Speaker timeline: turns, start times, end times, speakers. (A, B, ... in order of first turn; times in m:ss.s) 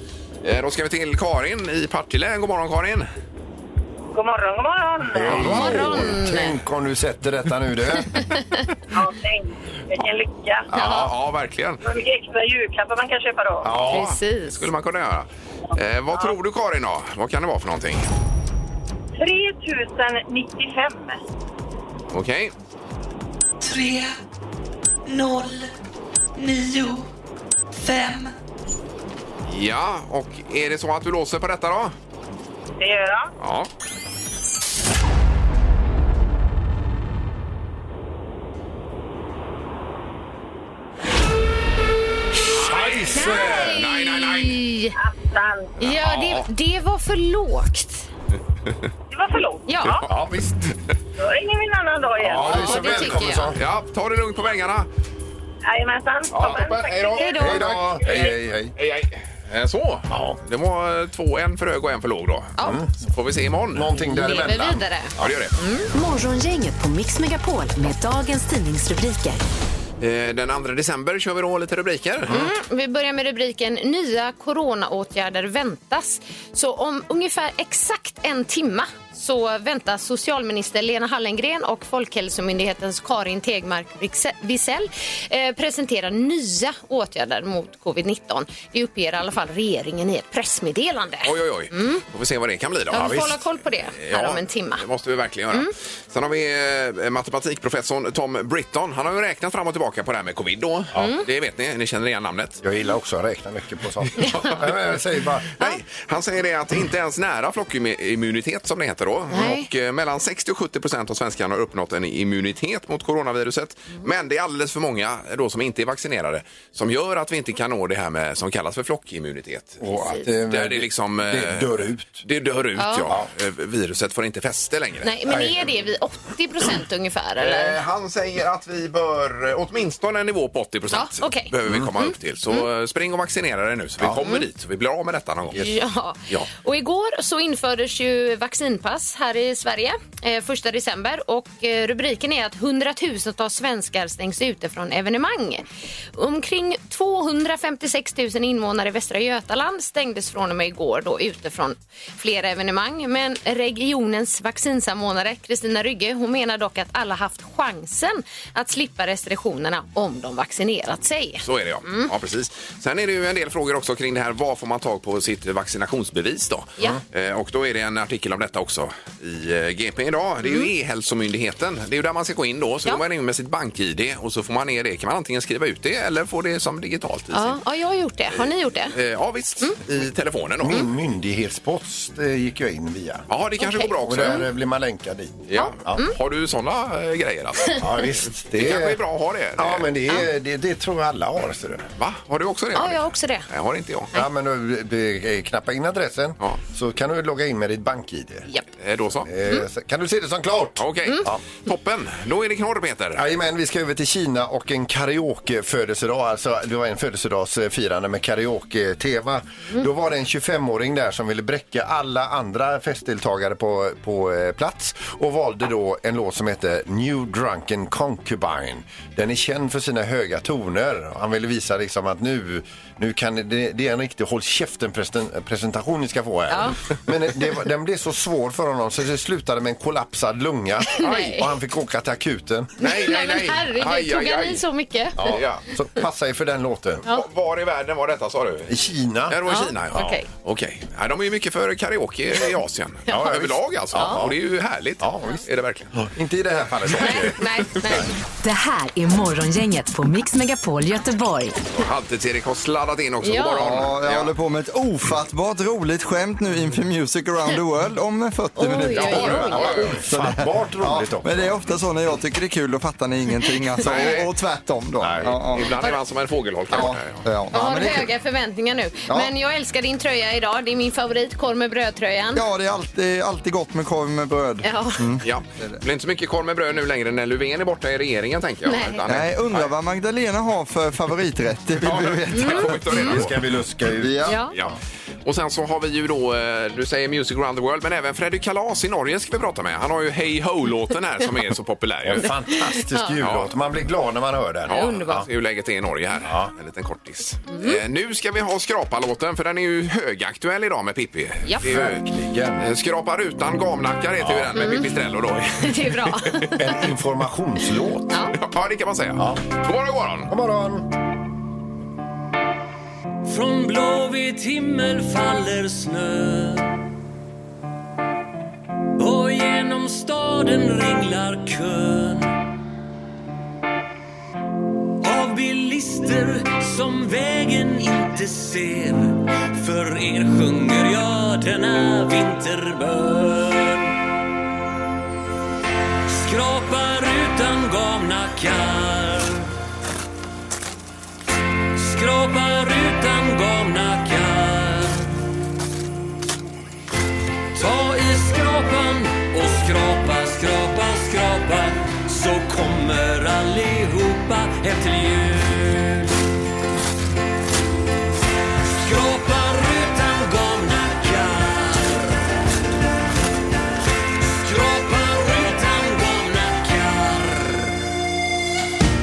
0:00.4-0:03.1 A
0:04.1-0:05.6 B
0:05.1-0:08.3 C
0:05.2-0:06.1 A
0:05.3-0:06.6 D
0:08.2-0:08.7 D
0:08.9-0:10.7 B
0:10.7-0:11.1 D
0:10.7-0:11.8 A
0:10.8-0:11.1 C
0:11.8-0:13.7 B
0:13.6-0:14.1 C
0:13.7-0:18.0 A
0:13.9-0:14.7 D
0:19.2-0:21.2 B
0:22.1-0:22.5 A
0:23.6-0:24.2 E
0:25.1-0:25.7 E
0:26.4-0:27.1 E
0:27.8-0:28.3 E
0:29.4-0:32.0 A
0:32.8-0:33.3 B
0:33.4-0:33.7 A
0:42.4-0:43.8 C
0:42.5-0:44.7 A
0:43.1-0:45.0 D
0:45.0-0:45.8 B
0:45.8-0:48.0 D
0:45.8-0:46.5 A
0:49.1-0:50.0 B
0:49.7-0:50.0 D
0:50.1-0:50.6 A
0:50.1-0:50.6 C
0:51.2-0:53.0 B
0:52.2-0:53.6 C
0:52.4-0:53.5 D
0:53.5-0:54.9 A
0:55.6-0:57.4 B
0:56.3-1:04.5 A
0:57.2-0:57.7 D
0:57.4-0:58.8 C
1:00.1-1:00.4 C
1:02.6-1:03.0 C
1:03.7-1:05.3 C
1:04.1-1:05.9 D
1:05.2-1:05.6 A
1:05.9-1:09.4 F
1:10.0-1:12.4 A
1:12.3-1:32.0 D
1:31.2-1:33.4 A
1:32.9-1:34.8 D
1:32.9-1:33.4 C
1:34.0-1:42.6 A
1:41.0-1:41.2 D
1:42.6-1:45.5 C
1:44.2-1:45.0 A
1:44.2-1:44.6 D
1:45.6-1:59.8 A
1:49.3-1:49.7 D
1:59.8-2:02.2 C
1:59.9-2:00.2 D
2:00.5-2:05.2 A
2:02.8-2:03.1 D
2:05.0-2:07.8 D
2:05.3-2:05.6 C
2:07.4-2:15.7 A
2:10.9-2:12.7 D
2:15.6-2:42.1 D
2:41.4-2:57.6 A
2:50.4-2:50.7 D
2:57.3-2:59.0 D
2:58.3-3:00.9 A
3:00.6-3:03.3 C
3:03.3-3:04.5 A
3:03.6-3:04.4 D
3:04.0-3:06.0 C
3:05.5-3:09.9 A
3:05.5-3:06.1 D
3:07.8-3:09.0 C
3:09.6-3:11.9 C
3:12.0-3:14.1 A
3:12.8-3:13.5 D
3:14.1-3:18.5 C
3:18.8-3:19.3 A
3:19.2-3:21.4 C
3:20.8-3:23.2 A
3:23.2-3:52.7 C
3:46.5-3:46.8 D
3:50.9-3:51.5 D
3:51.0-3:51.4 A
3:52.8-3:54.6 A
3:52.8-3:55.4 D
3:55.2-3:57.1 C
3:55.2-3:55.6 A
3:57.1-3:58.7 A
3:58.7-3:59.4 C
3:59.3-4:06.0 A
3:59.5-4:00.3 D
4:03.1-4:04.4 C
4:05.0-4:05.4 C
4:06.0-4:08.1 C
4:07.0-4:08.1 D
4:08.4-4:11.6 F
4:11.7-4:14.3 A
4:13.2-4:13.7 D
4:13.6-4:25.8 G
4:18.6-4:20.0 D
4:18.9-4:20.0 A
4:19.5-4:21.6 C
4:23.8-4:24.3 A
4:25.0-4:25.4 C
4:25.2-4:27.2 A
4:26.7-4:28.1 G
4:27.5-4:32.5 D
4:32.4-4:35.8 G
4:34.6-4:35.1 D
4:35.2-4:39.7 A
4:38.7-4:39.0 D
4:39.1-4:43.1 G
4:41.8-4:43.5 A
4:42.3-4:43.2 D
4:43.0-4:44.4 C
4:44.0-4:44.4 G
4:44.2-4:44.5 D
4:44.5-4:52.4 A
4:52.0-4:55.3 C
4:53.2-4:53.5 A
4:54.7-5:02.0 A
4:54.7-4:55.2 D
4:56.2-4:56.5 C
4:57.5-4:57.8 D
5:01.6-5:02.7 C
5:02.6-5:06.5 A
5:04.2-5:04.7 C
5:04.6-5:04.9 D
5:05.6-5:06.7 D
5:06.6-5:08.2 C
5:08.1-5:08.4 D
5:08.4-5:10.3 A
5:09.2-5:09.4 C
5:10.3-5:10.9 C
5:13.3-5:16.7 H
5:19.0-5:22.3 H
5:25.0-5:33.9 H
5:36.1-5:39.5 H
5:41.8-5:45.1 H
5:47.5-5:56.2 H
5:58.8-6:02.2 H
6:04.3-6:07.8 H